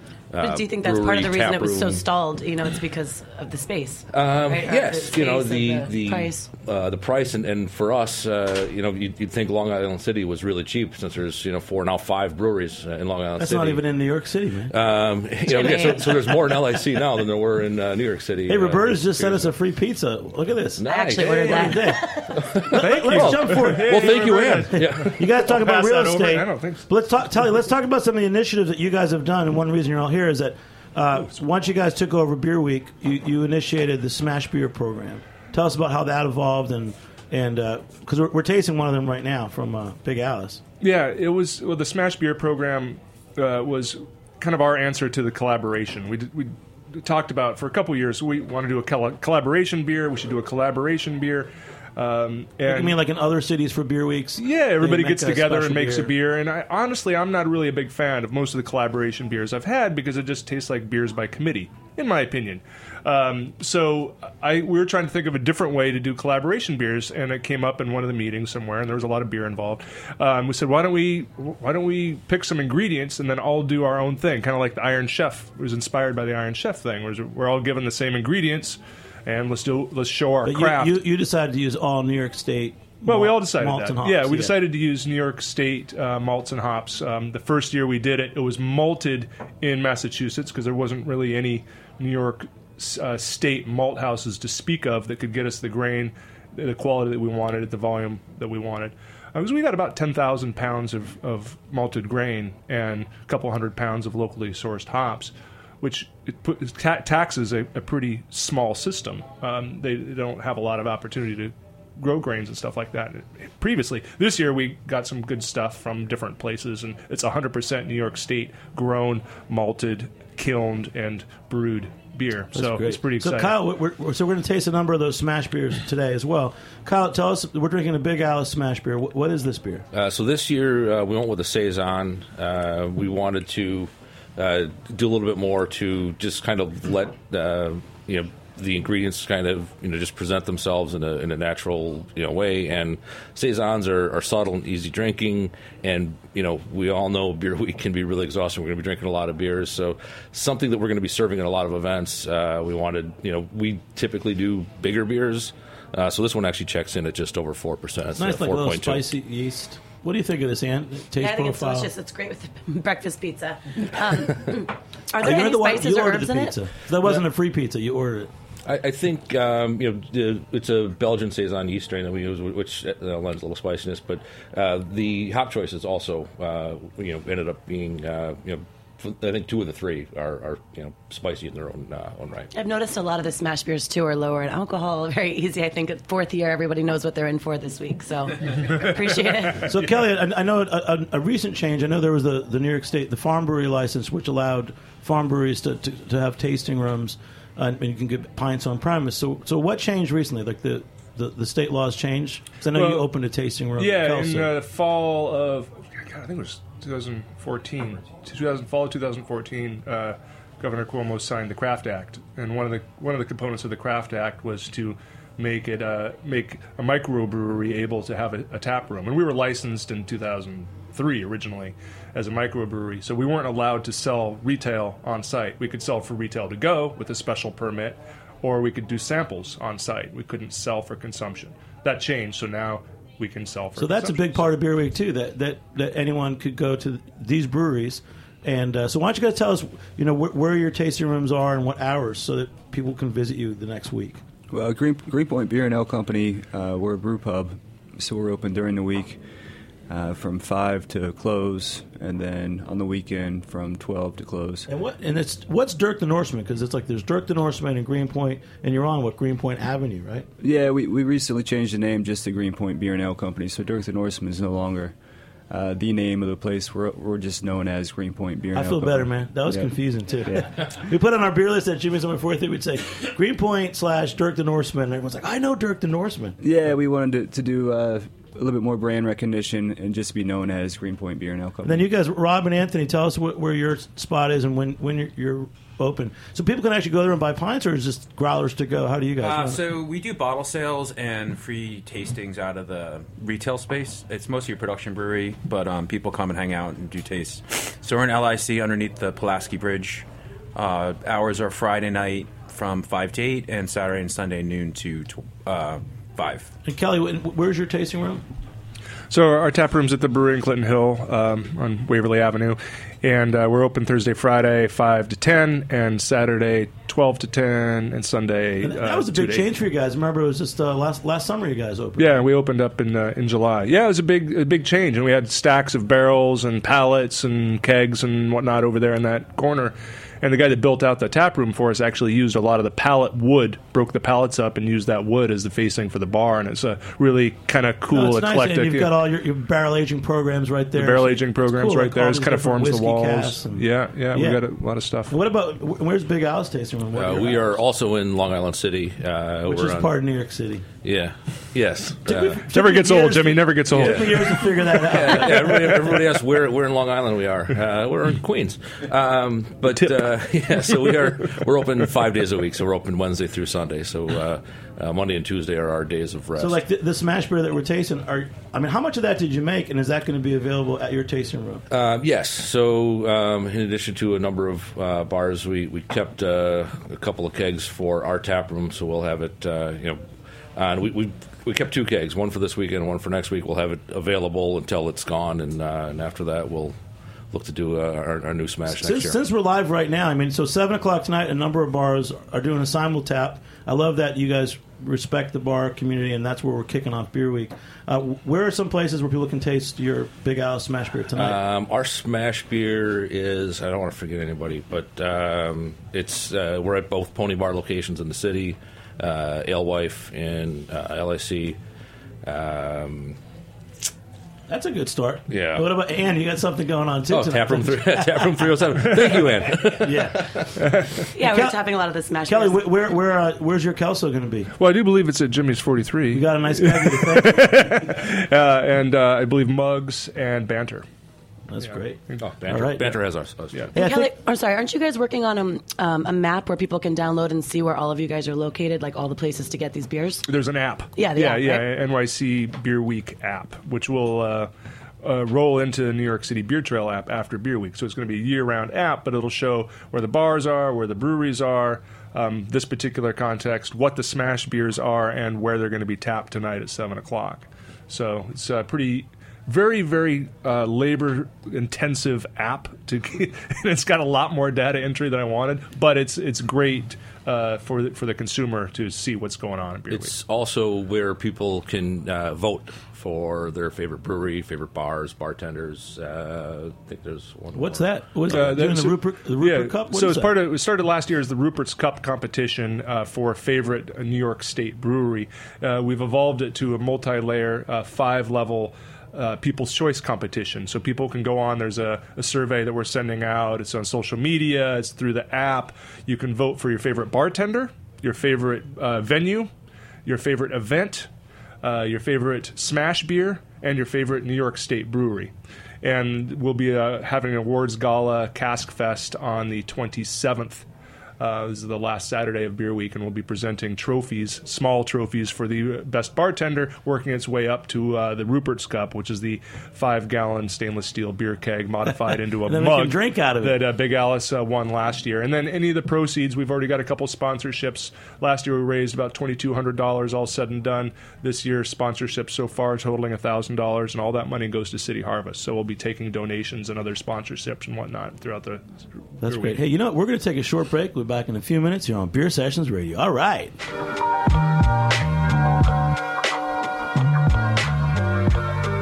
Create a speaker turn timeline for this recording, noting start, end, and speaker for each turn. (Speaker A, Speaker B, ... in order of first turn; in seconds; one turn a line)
Speaker A: 0.3-2.0
Speaker B: 0.4-6.5
Speaker A: 4.1-13.8
Speaker C: 13.4-14.7
Speaker A: 14.7-19.5
Speaker B: 15.5-17.0
Speaker C: 18.5-22.1
Speaker A: 20.8-25.3
Speaker B: 20.9-22.6
Speaker C: 22.7-40.6
Speaker D: 22.8-26.9
Speaker D: 40.8-53.0
Speaker C: 52.6-56.1
Speaker D: 54.4-81.0
Speaker C: 80.4-84.6
Speaker D: 83.0-123.5
Speaker C: 122.5-129.8
Speaker A: 129.9-159.1
Speaker C: 158.2-161.9
Speaker B: 161.2-166.6
Speaker C: 165.2-168.3
Speaker A: 168.7-182.5
Speaker B: 182.5-189.7
Speaker C: 189.6-204.5
Speaker D: 202.7-203.1
Speaker D: 203.8-234.5
Speaker C: 233.8-244.2
Speaker E: 244.5-249.2
Speaker E: 249.9-254.7
Speaker C: 254.7-260.3
Speaker E: 260.4-264.9
Speaker E: 265.5-270.6
Speaker C: 268.5-276.4
Speaker E: 276.4-281.9
Speaker C: 281.6-289.6
Speaker F: 289.2-306.5
Speaker C: 306.6-308.2
Speaker D: 309.1-319.5
Speaker C: 318.6-322.2
Speaker D: 322.0-338.9
Speaker C: 337.9-344.4
Speaker D: 340.8-345.1
Speaker C: 345.1-347.6
Speaker A: 347.0-349.9
Speaker C: 349.5-350.6
Speaker A: 350.8-352.4
Speaker C: 352.1-356.0
Speaker D: 352.5-354.5
Speaker A: 353.7-354.2
Speaker A: 354.7-366.6
Speaker C: 366.4-371.6
Speaker A: 371.7-380.0
Speaker A: 380.6-386.8
Speaker A: 387.3-389.2
Speaker C: 388.7-401.4
Speaker A: 401.2-411.6
Speaker A: 412.2-413.2
Speaker C: 414.5-418.2
Speaker A: 415.3-415.7
Speaker A: 417.1-420.5
Speaker C: 419.8-420.3
Speaker D: 420.6-421.0
Speaker B: 421.1-422.6
Speaker C: 421.2-421.6
Speaker C: 422.2-424.5
Speaker D: 424.6-430.9
Speaker C: 426.1-427.8
Speaker C: 431.5-433.0
Speaker A: 432.2-433.7
Speaker C: 433.7-434.1
Speaker B: 433.8-440.2
Speaker D: 440.3-444.5
Speaker B: 441.0-441.6
Speaker D: 445.0-470.1
Speaker A: 469.9-478.7
Speaker C: 477.5-480.4
Speaker D: 478.3-499.5
Speaker D: 500.1-501.1
Speaker D: 501.6-510.7
Speaker D: 511.2-539.6
Speaker C: 522.5-523.6
Speaker C: 539.2-543.5